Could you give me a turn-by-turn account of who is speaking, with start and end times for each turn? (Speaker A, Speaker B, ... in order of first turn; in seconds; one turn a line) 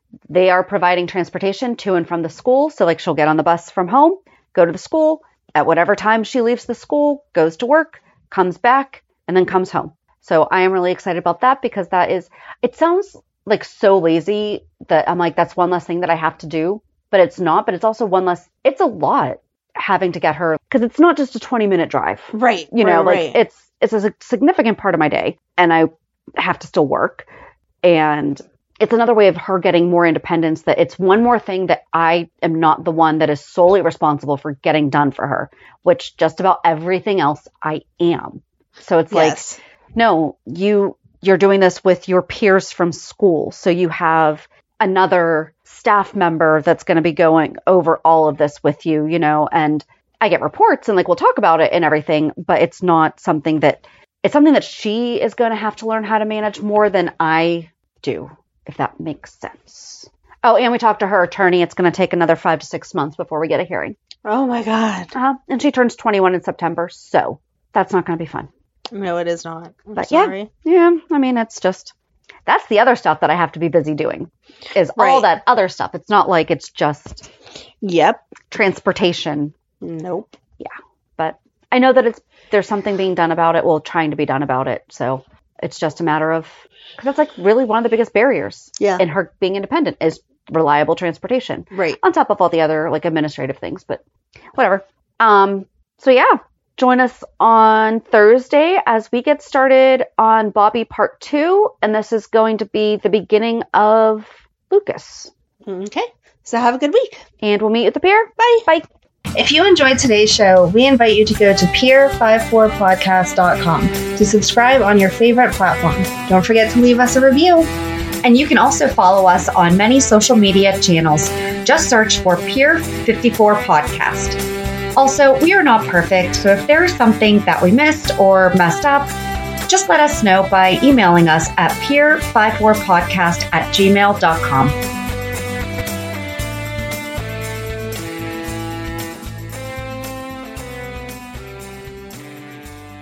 Speaker A: 0.3-27.3
Speaker B: 22.3-23.4
Speaker A: 27.8-39.4
Speaker B: 39.1-39.6
Speaker A: 39.9-64.0
Speaker B: 64.2-65.1
Speaker A: 65.1-68.5
Speaker B: 68.9-70.5
Speaker A: 70.0-71.9
Speaker A: 72.5-77.3
Speaker B: 75.0-75.3
Speaker B: 77.8-78.2
Speaker A: 78.5-79.5
Speaker B: 79.8-80.3
Speaker A: 80.6-94.0
Speaker B: 88.8-89.0
Speaker B: 91.7-92.0
Speaker A: 94.5-105.3
Speaker B: 105.6-107.2
Speaker A: 107.4-108.8
Speaker B: 108.4-108.7
Speaker C: 109.3-117.7
Speaker C: 118.2-124.4
Speaker C: 125.0-128.8
Speaker A: 127.8-129.1
Speaker A: 129.7-131.6
Speaker C: 129.7-130.5
Speaker C: 131.1-134.1
Speaker A: 133.2-134.7